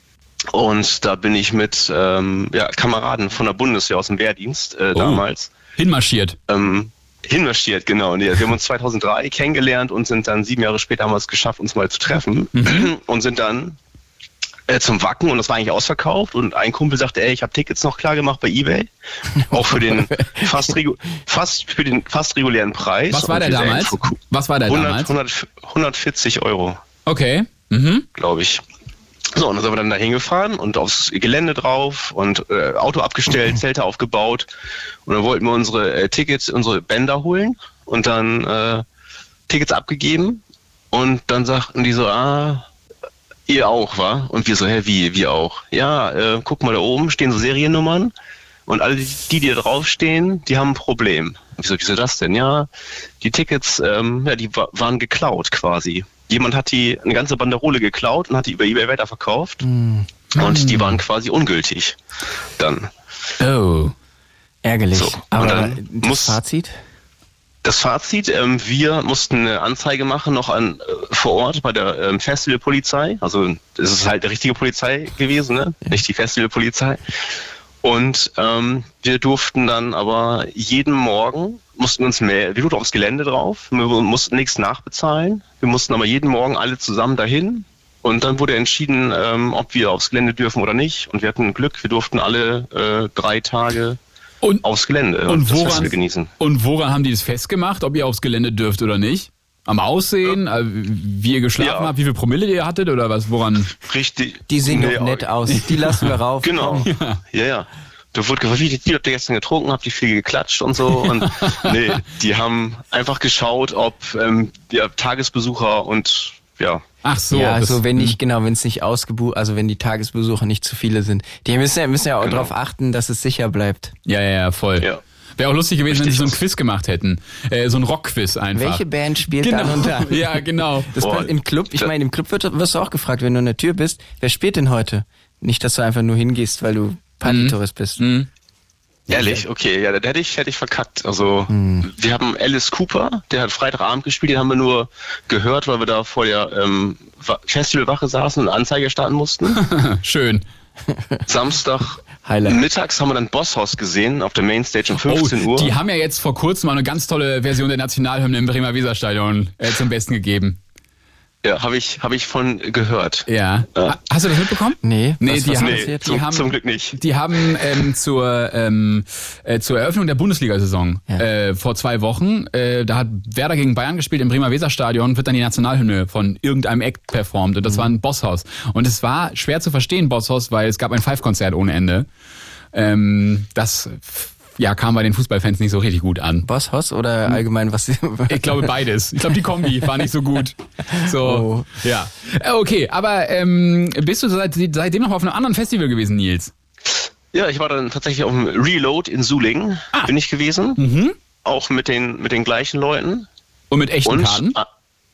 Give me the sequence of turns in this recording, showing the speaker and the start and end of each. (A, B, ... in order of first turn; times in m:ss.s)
0:00.5-0:05.5 A
0:04.9-0:05.2 B
0:05.8-0:06.4 B
0:06.5-0:13.8 A
0:12.5-0:12.9 B
0:14.7-0:18.9 A
0:19.4-0:20.7 C
0:19.5-0:26.8 A
0:23.1-0:25.1 B
0:27.0-0:28.0 B
0:28.2-0:28.6 A
0:29.3-0:34.5 A
0:35.0-0:38.8 A
0:39.5-0:40.4 A
0:40.9-0:42.6 A
0:43.5-0:48.1 A
0:48.7-0:52.7 A
0:53.2-0:59.6 A
0:59.6-1:00.1 C
1:00.3-1:01.0 B
1:00.4-1:02.0 A
1:02.6-1:02.9 A
1:03.4-1:03.9 B
1:04.6-1:06.8 C
1:04.9-1:06.4 A
1:07.6-1:17.0 A
1:17.8-1:34.0 A
1:34.6-1:36.3 A
1:35.3-1:43.7 B
1:41.6-1:41.9 A
1:43.9-1:45.3 A
1:44.5-1:46.9 C
1:45.5-1:46.1 B
1:46.4-1:56.8 A
1:46.8-1:47.2 B
1:57.0-1:58.2 B
1:57.3-2:03.9 C
2:02.2-2:02.5 A
2:04.0-2:04.9 B
2:05.4-2:08.8 B
2:05.9-2:06.4 A
2:08.5-2:18.0 C
2:09.4-2:10.9 B
2:11.0-2:11.9 A
2:17.2-2:18.3 B
2:19.1-2:29.6 A
2:21.5-2:21.8 C
2:29.6-2:30.4 B
2:30.9-2:31.2 C
2:31.3-2:35.7 A
2:32.2-2:32.6 C
2:35.0-2:40.6 B
2:41.4-2:44.0 A
2:43.3-3:02.1 B
2:44.8-2:46.1 C
2:45.5-2:47.0 A
2:57.6-2:57.9 C
3:02.7-3:06.4 B
3:06.4-3:08.7 C
3:08.3-3:16.5 B
3:11.0-3:11.7 C
3:17.3-3:20.8 A
3:20.8-3:21.1 B
3:21.4-3:23.2 A
3:23.7-3:24.6 B
3:24.0-3:24.6 A